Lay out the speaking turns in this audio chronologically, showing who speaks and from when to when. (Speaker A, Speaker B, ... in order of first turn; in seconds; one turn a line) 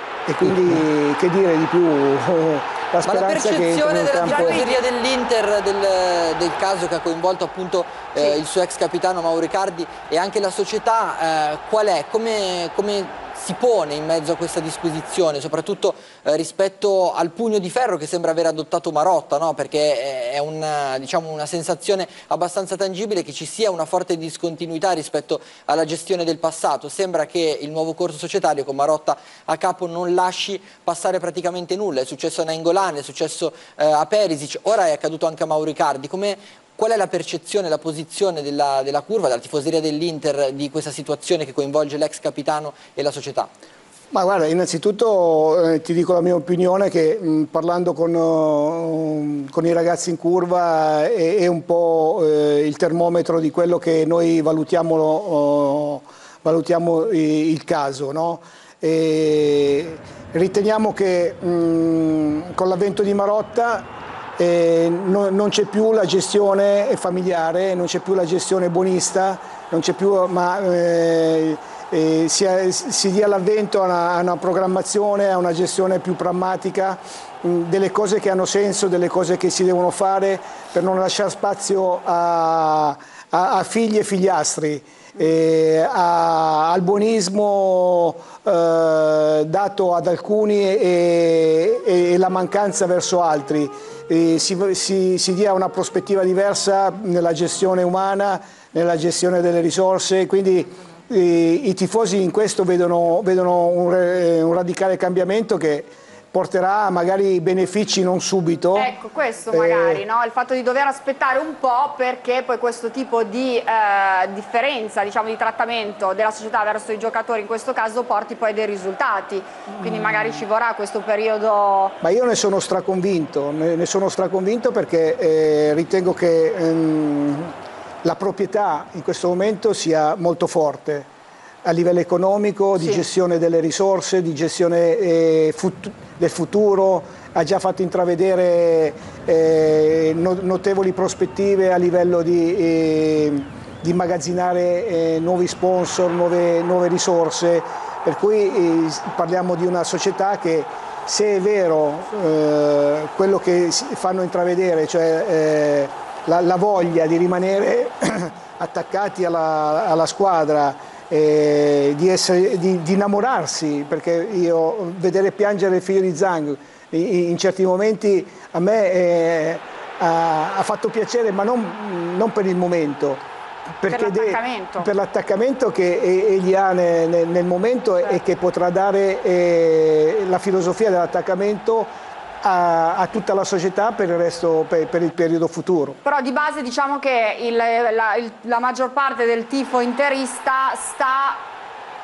Speaker A: 0.3-4.6
Speaker B: 3.1-43.5
Speaker C: 4.2-4.8
Speaker A: 44.1-108.9
Speaker C: 108.8-122.0
Speaker A: 109.5-110.0
Speaker A: 122.0-131.1
Speaker A: 131.6-173.2
Speaker C: 132.8-133.0
Speaker A: 173.8-186.0
Speaker C: 173.9-174.9
Speaker C: 186.0-191.4